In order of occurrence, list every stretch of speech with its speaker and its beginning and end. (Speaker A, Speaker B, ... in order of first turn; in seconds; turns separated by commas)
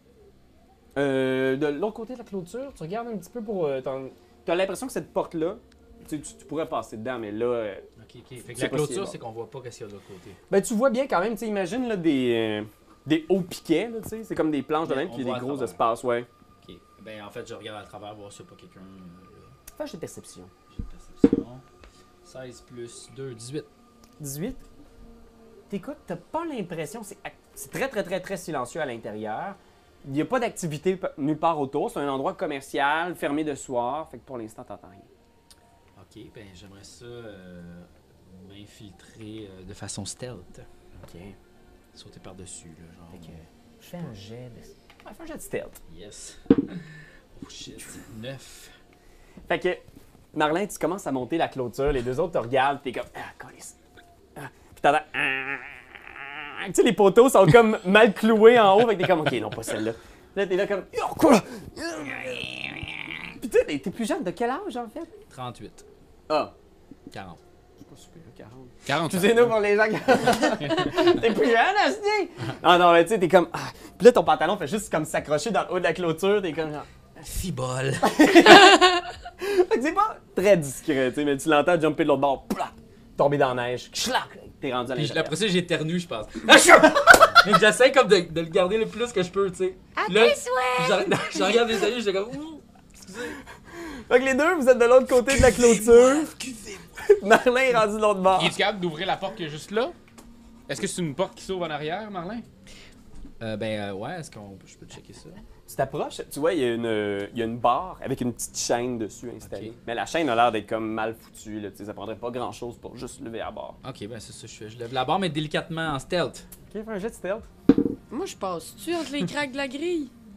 Speaker A: 0.9-7.8, Speaker B: 8.0-10.4, Speaker A: 8.5-9.2, Speaker A: 10.5-16.3, Speaker B: 14.8-15.8, Speaker B: 16.6-19.5, Speaker A: 19.7-20.5, Speaker B: 20.7-21.6, Speaker B: 22.2-23.7, Speaker A: 24.2-24.6, Speaker A: 25.7-35.1, Speaker B: 36.0-40.7, Speaker A: 41.0-41.3, Speaker B: 41.9-43.4, Speaker A: 43.1-45.8, Speaker B: 45.9-48.7, Speaker A: 49.5-49.8, Speaker A: 50.3-53.8, Speaker A: 54.4-65.1, Speaker B: 65.3-65.8, Speaker B: 67.1-67.4, Speaker A: 67.8-76.9, Speaker C: 68.8-69.6, Speaker C: 70.6-71.0, Speaker B: 77.2-78.7, Speaker A: 78.0-85.3, Speaker B: 84.9-93.4, Speaker D: 90.0-91.8, Speaker A: 93.7-96.3, Speaker B: 95.2-97.0, Speaker A: 97.0-98.5, Speaker C: 98.3-100.0, Speaker C: 100.7-102.5, Speaker B: 103.4-105.4, Speaker A: 105.7-113.8, Speaker B: 109.4-109.7, Speaker B: 113.8-116.4, Speaker A: 116.7-117.5, Speaker D: 118.1-120.1